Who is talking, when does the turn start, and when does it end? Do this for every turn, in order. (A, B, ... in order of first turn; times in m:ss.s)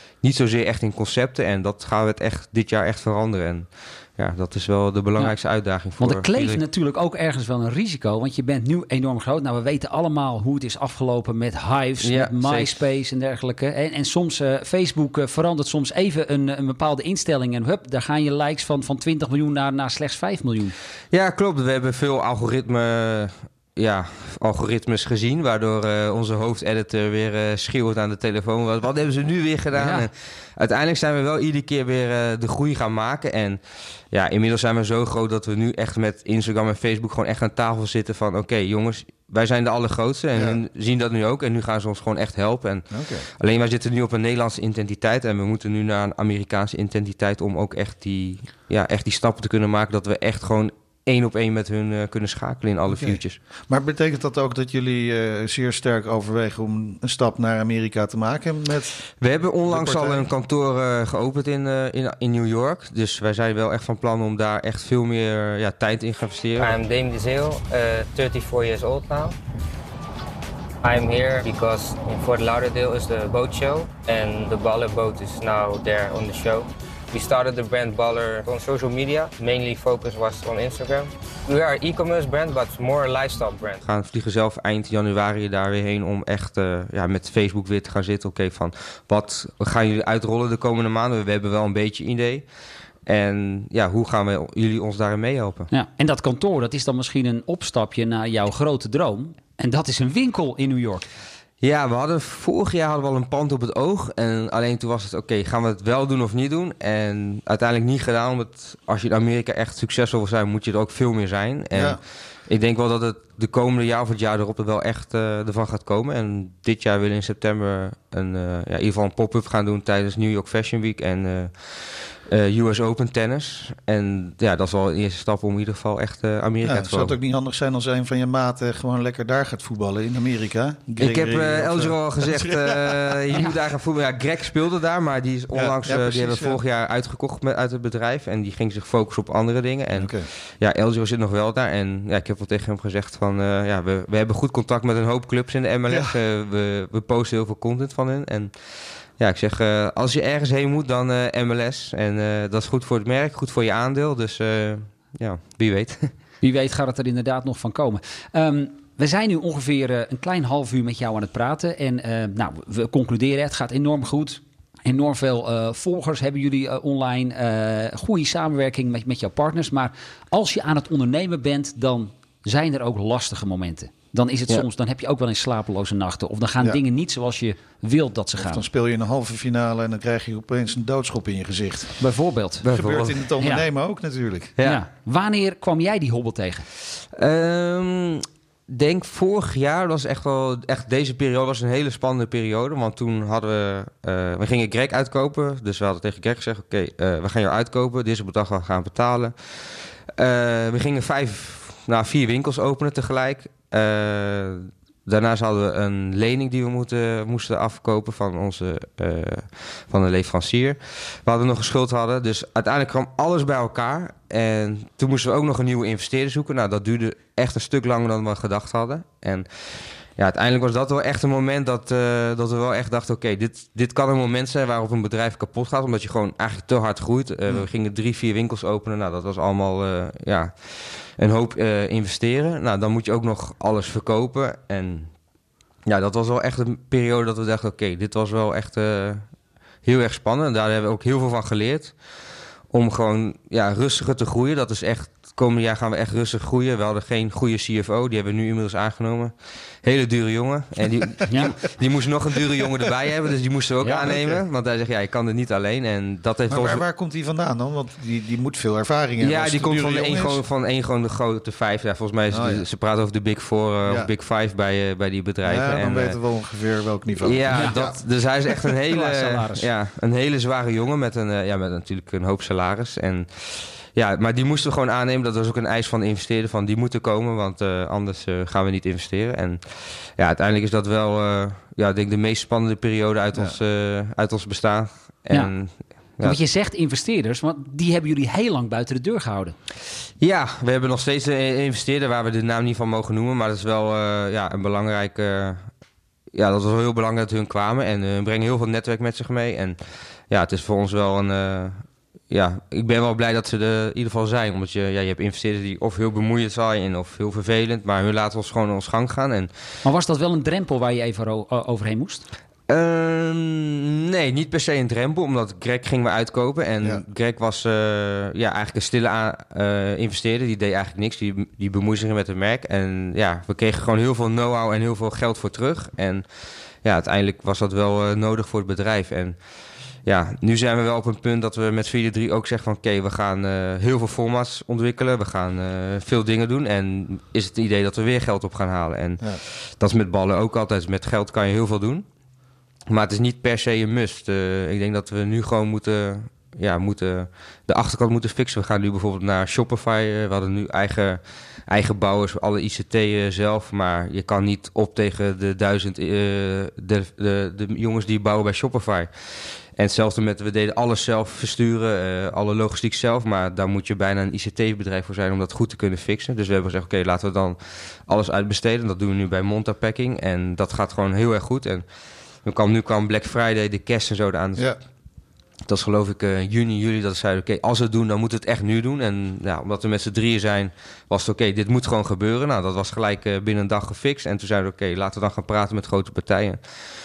0:00.2-0:06.6 A
0:06.0-0:20.7 B
0:12.0-0:12.8 A
0:21.1-0:33.6 A
0:29.7-0:30.1 B
0:34.1-0:42.9 A
0:42.9-0:43.3 C
0:43.4-0:53.4 A
0:52.9-0:59.0 C
0:59.2-1:06.8 A
0:59.7-1:00.3 C
1:06.6-1:09.3 D
1:10.8-1:23.8 D
1:23.8-1:32.4 A
1:33.0-1:35.7 A
1:35.7-1:41.1 B
1:41.6-2:07.1 A
1:51.7-1:52.0 C
2:06.6-2:13.5 C
2:11.0-2:28.5 A
2:15.5-2:16.6 C
2:19.9-2:20.3 C
2:25.9-2:26.1 C
2:29.2-2:36.1 A
2:36.4-2:58.6 B
2:58.4-3:01.9 C
3:02.0-3:02.6 B
3:02.6-3:03.2 A
3:02.6-3:04.5 C
3:04.6-3:04.8 A
3:04.6-3:06.7 B
3:07.1-3:39.5 A
3:40.2-3:55.1 A
3:55.8-3:59.2 A
3:59.8-4:01.9 A
4:02.7-4:16.8 A
4:11.3-4:11.6 B
4:14.0-4:14.4 C
4:16.5-4:20.4 C
4:19.2-4:26.2 A
4:22.3-4:22.6 C
4:25.4-4:28.0 C
4:27.2-4:46.4 A
4:27.5-4:27.8 B
4:28.9-4:29.7 B
4:46.2-4:49.6 B
4:50.2-4:55.7 A
4:56.3-4:59.8 A
5:00.3-5:09.5 A
5:09.8-5:12.2 B
5:12.7-5:26.2 A
5:26.8-5:29.4 A
5:30.0-5:42.0 A
5:42.9-5:59.1 A
5:59.8-6:11.8 A
6:12.4-6:14.7 A
6:15.7-6:26.6 A